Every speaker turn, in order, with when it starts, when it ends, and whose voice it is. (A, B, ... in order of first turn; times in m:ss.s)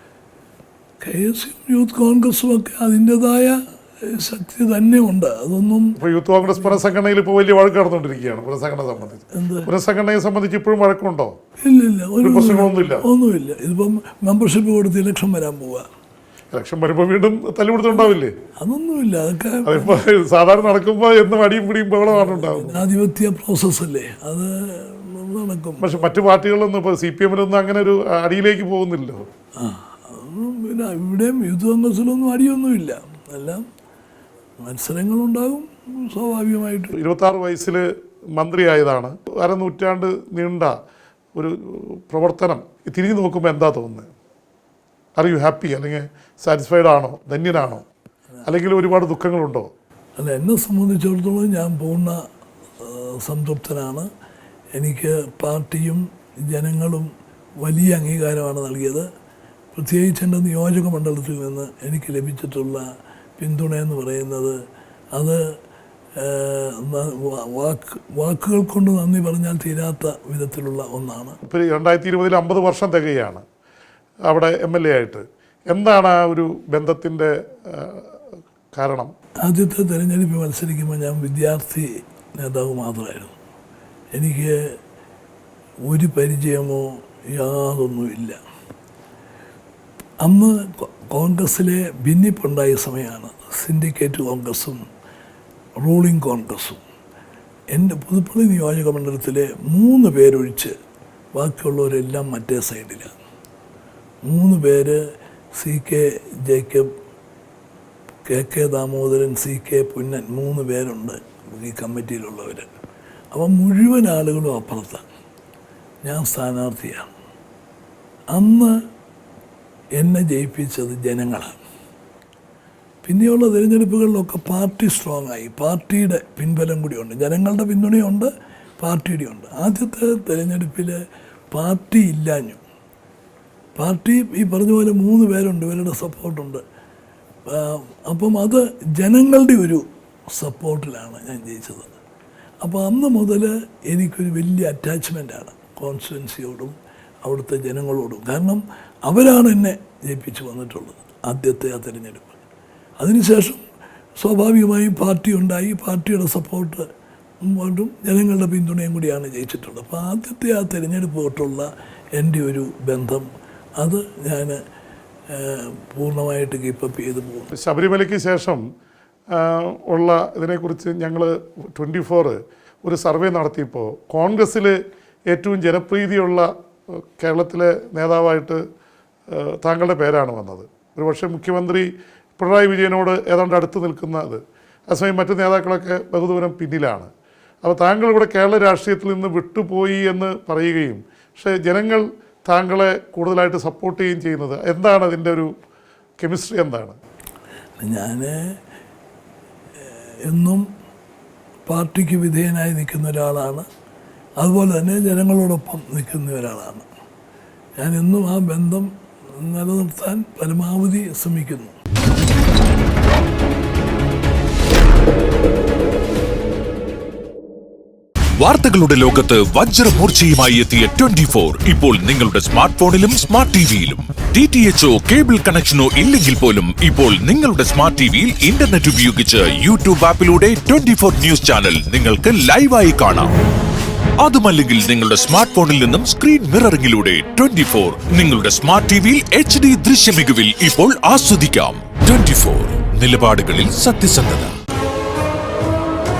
0:01.0-0:06.0 A
0:06.0-0:11.4 B
0:09.3-0:09.7 A
0:11.6-0:15.9 A
0:12.2-0:13.0 B
0:16.5-0:18.3 B
0:18.6-0:20.0 A
0:19.6-0:22.8 B
0:22.2-0:26.0 A
0:25.8-0:29.2 B
0:29.6-0:33.6 A
0:34.6-0:36.9 A
0:37.0-0:37.8 B
0:38.4-0:40.7 B
0:41.3-0:44.1 B
0:45.2-0:47.8 B
0:48.4-0:49.7 B
0:50.2-0:52.2 A
0:52.8-0:54.1 A
0:54.7-0:57.1 A
0:57.6-0:59.1 A
0:59.7-1:02.9 A
1:03.4-1:04.6 A
1:05.1-1:05.5 A
1:06.2-1:11.4 A
1:11.4-1:13.4 B
1:14.3-1:18.1 B
1:18.8-1:19.1 B
1:19.4-1:23.3 A
1:24.1-1:24.7 A
1:25.9-1:28.4 A
1:30.2-1:34.8 A
1:35.8-1:36.8 A
1:37.7-1:40.7 A
1:41.3-1:43.1 A
1:44.2-1:45.0 A
1:45.5-1:46.9 A
1:48.3-1:52.7 A
1:53.3-1:55.0 A
1:56.0-1:57.1 A
1:58.3-1:58.8 A
2:00.0-2:01.6 A
2:03.0-2:11.0 A
2:11.5-2:12.6 A
2:13.8-2:16.6 A
2:17.5-2:21.9 A
2:22.6-2:32.3 A
2:33.0-2:33.6 A
2:34.2-2:36.8 A
2:37.4-2:43.3 A
2:43.8-2:44.6 A
2:45.3-2:47.5 A
2:47.5-2:48.6 B
2:49.3-2:54.7 B
2:55.3-2:58.6 B
2:59.3-3:07.1 B
3:07.6-3:15.5 B
3:16.2-3:17.0 B
3:17.8-3:18.6 A
3:19.8-3:20.7 A
3:21.6-3:23.6 A
3:24.4-3:26.9 A
3:27.8-3:31.8 A
3:38.4-3:53.3 C
3:54.2-4:04.5 C